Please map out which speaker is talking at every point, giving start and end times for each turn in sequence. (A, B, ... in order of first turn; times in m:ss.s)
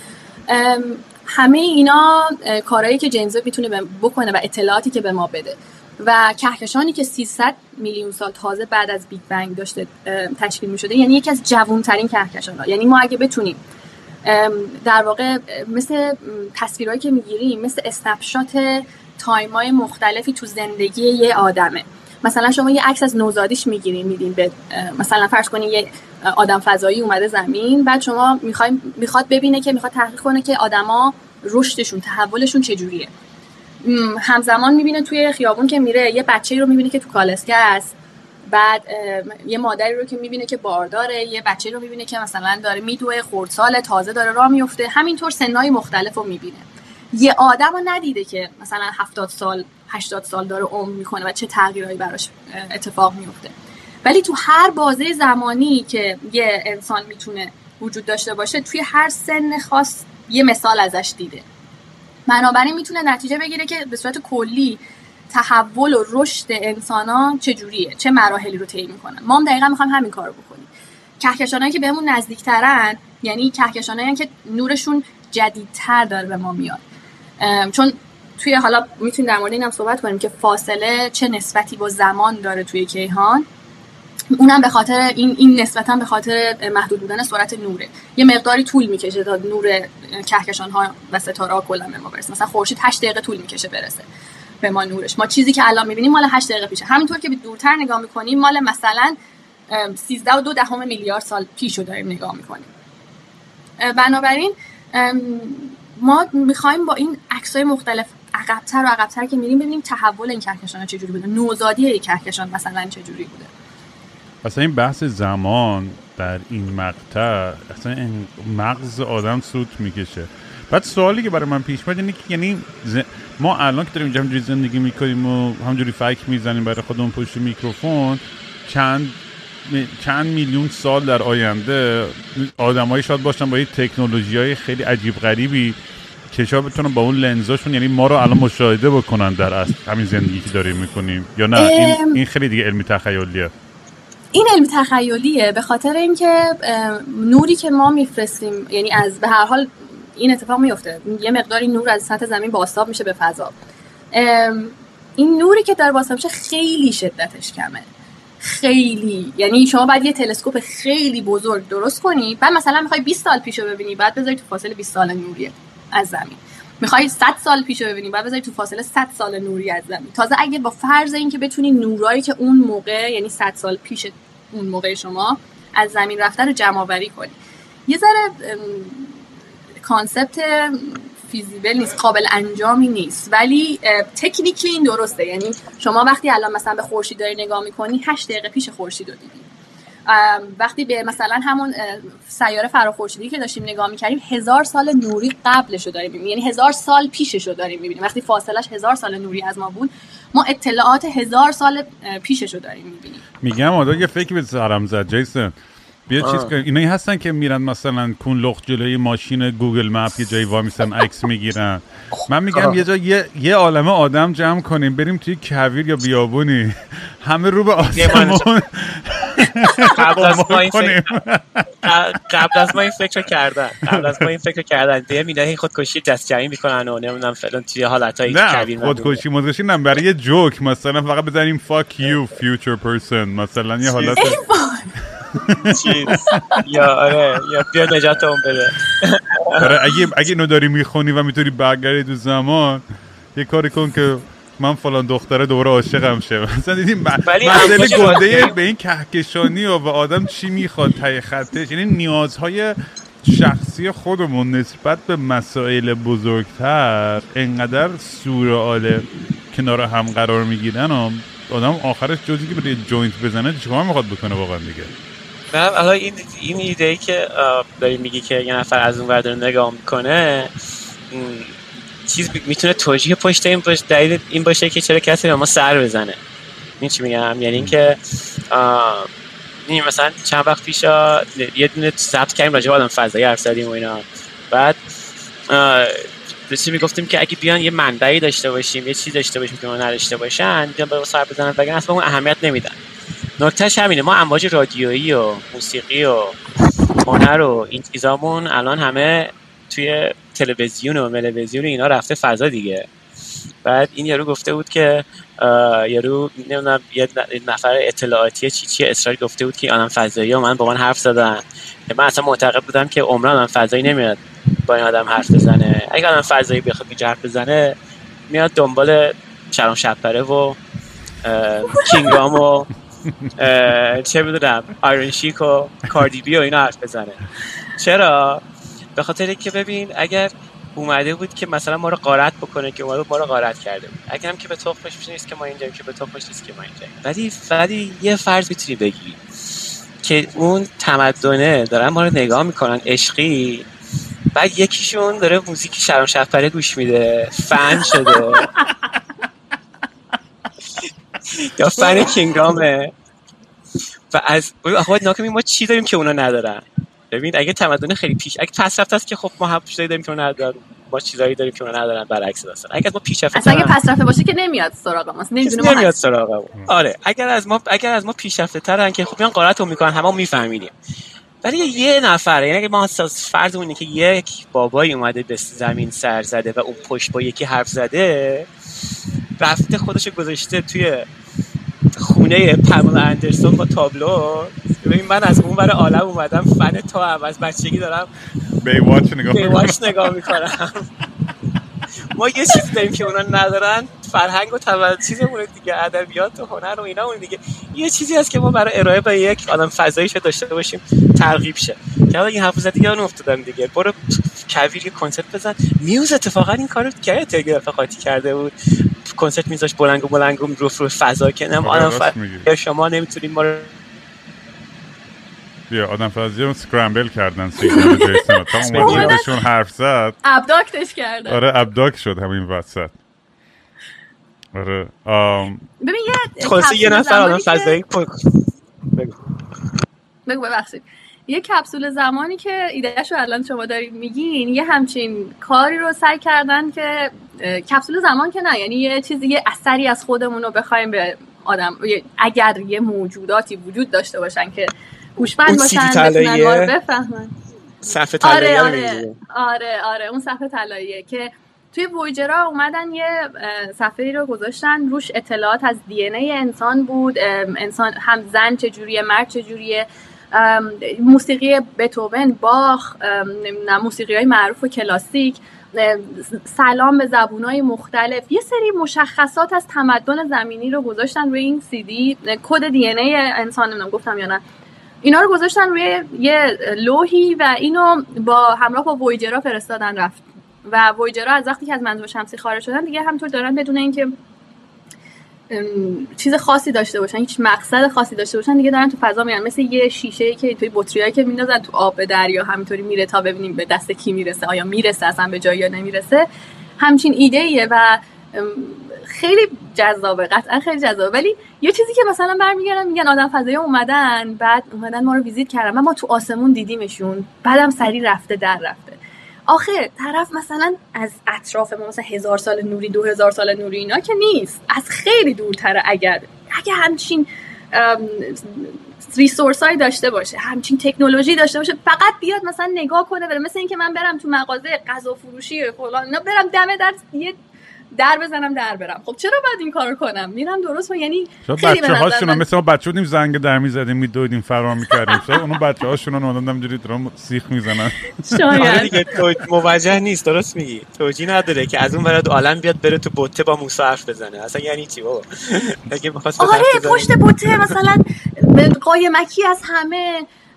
0:00.5-0:13.6 A
0:14.2-0:33.1 A
0:33.8-0:37.9 A
0:38.5-0:53.5 A
0:54.0-1:01.4 A
1:02.3-1:10.7 A
1:11.2-1:16.8 A
1:17.4-1:23.4 A
1:24.3-1:34.0 A
1:34.6-1:39.2 A
1:39.7-1:42.7 A
1:43.8-1:53.5 A
1:54.4-2:15.8 B
2:16.3-2:23.5 B
2:21.6-2:22.2 A
2:24.3-2:33.5 A
2:34.1-2:37.8 A
2:38.4-2:57.4 A
2:57.9-2:59.2 A
2:59.8-3:09.4 A
3:10.1-3:23.2 A
3:23.4-3:25.5 B
3:26.1-3:41.9 B
3:26.2-3:26.5 C
3:32.2-3:32.8 C
3:37.9-3:38.4 C
3:39.8-3:41.1 C
3:41.8-3:49.2 C
3:43.9-3:44.2 B
3:48.3-3:54.4 B
3:53.9-3:54.3 C
3:54.2-3:54.9 A
3:55.4-3:56.6 B
3:55.7-3:59.7 C
3:56.1-3:56.6 A
3:59.6-4:02.8 B
4:03.3-4:24.9 B
4:07.3-4:08.6 C
4:25.5-4:30.5 C
4:31.1-4:36.2 C
4:36.8-4:38.0 C
4:38.5-4:39.1 C
4:39.6-4:44.8 C
4:45.5-4:52.8 C
4:53.4-4:56.4 C
4:57.0-5:02.8 C
5:03.6-5:17.7 C
5:18.3-5:20.6 C
5:21.2-5:22.7 C
5:23.4-5:28.4 C
5:29.0-5:39.2 C
5:40.0-5:43.7 C
5:44.3-5:48.5 C
5:50.8-5:52.9 C
5:54.1-6:03.8 C
6:03.3-6:05.9 A
6:05.4-6:10.7 C
6:11.4-6:18.5 C
6:19.4-6:21.1 C
6:22.0-6:28.1 C
6:28.6-6:30.1 B
6:29.3-6:30.9 C
6:32.1-6:48.5 C
6:49.0-6:53.7 C
6:51.6-6:52.5 B
6:55.7-7:00.2 B
6:57.7-6:59.3 A
6:58.6-6:59.2 C
7:00.2-7:01.4 A
7:01.3-7:02.9 B
7:04.5-7:05.6 B
7:05.8-7:07.8 A
7:06.4-7:09.2 C
7:10.3-7:27.3 A
7:25.5-7:26.7 C
7:27.8-7:29.2 C
7:28.2-7:54.4 A
7:55.0-8:04.1 A
8:05.5-8:16.3 A
8:16.8-8:47.4 A
8:47.9-8:52.4 A
8:51.4-8:58.7 B
8:55.1-8:55.4 A
8:58.2-8:59.1 A
8:58.5-9:07.7 C
9:06.4-9:10.3 A